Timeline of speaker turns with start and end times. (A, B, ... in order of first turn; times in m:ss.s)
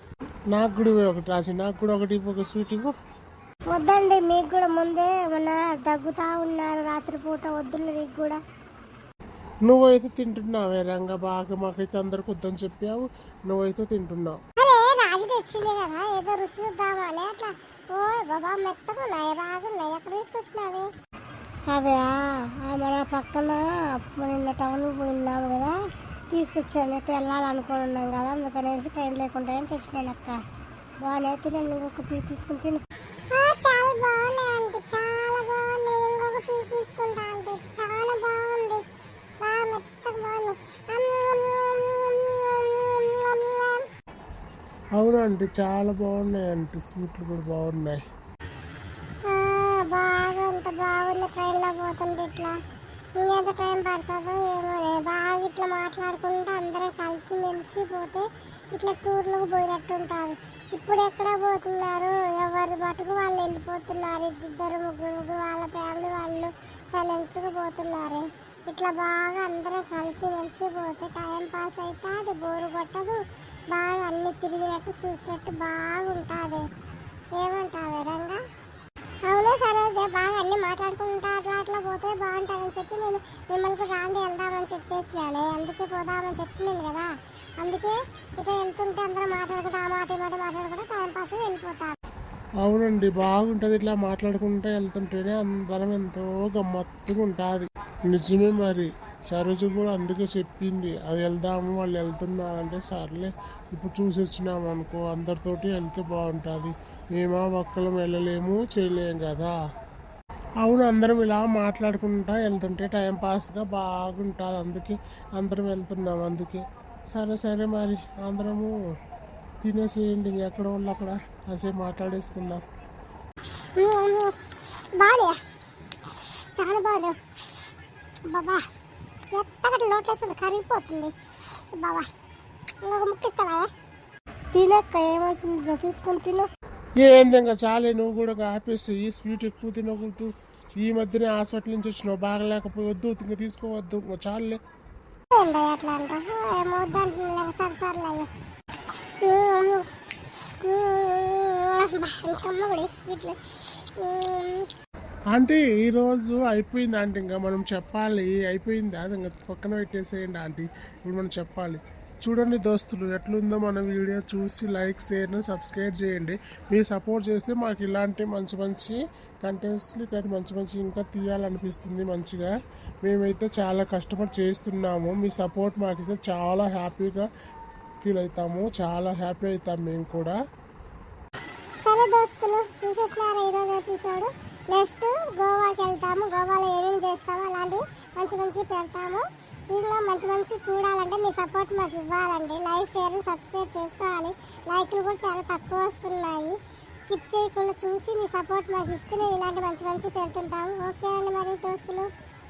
0:00.5-0:02.9 A
0:03.7-0:08.4 B
0:09.6-0:14.4 A
0:14.6-0:20.9 C
0:21.7-0:25.7 B
0:26.3-0:30.4 B
0:31.0-0:32.8 B
0:33.3-0:38.8 C
0:39.4-0:43.8 C
0:45.0-0:48.0 A
0:49.2-0:52.5 C
0:53.2-1:13.2 C
1:13.7-1:16.6 C
1:17.4-1:18.4 C
1:19.2-1:27.1 C
1:27.6-1:31.9 C
1:32.6-1:49.6 A
1:50.6-1:58.8 A
1:59.6-2:02.6 A
2:03.5-2:05.4 C
2:06.1-2:07.7 C
2:08.3-2:08.6 C
2:09.3-2:12.1 C
2:12.8-2:13.7 C
2:14.5-2:16.5 B
2:17.0-2:24.6 A
2:25.3-2:28.3 C
2:29.2-2:34.6 C
2:35.3-2:52.5 A
2:53.0-2:57.3 A
2:58.0-3:00.4 A
3:01.8-3:22.1 C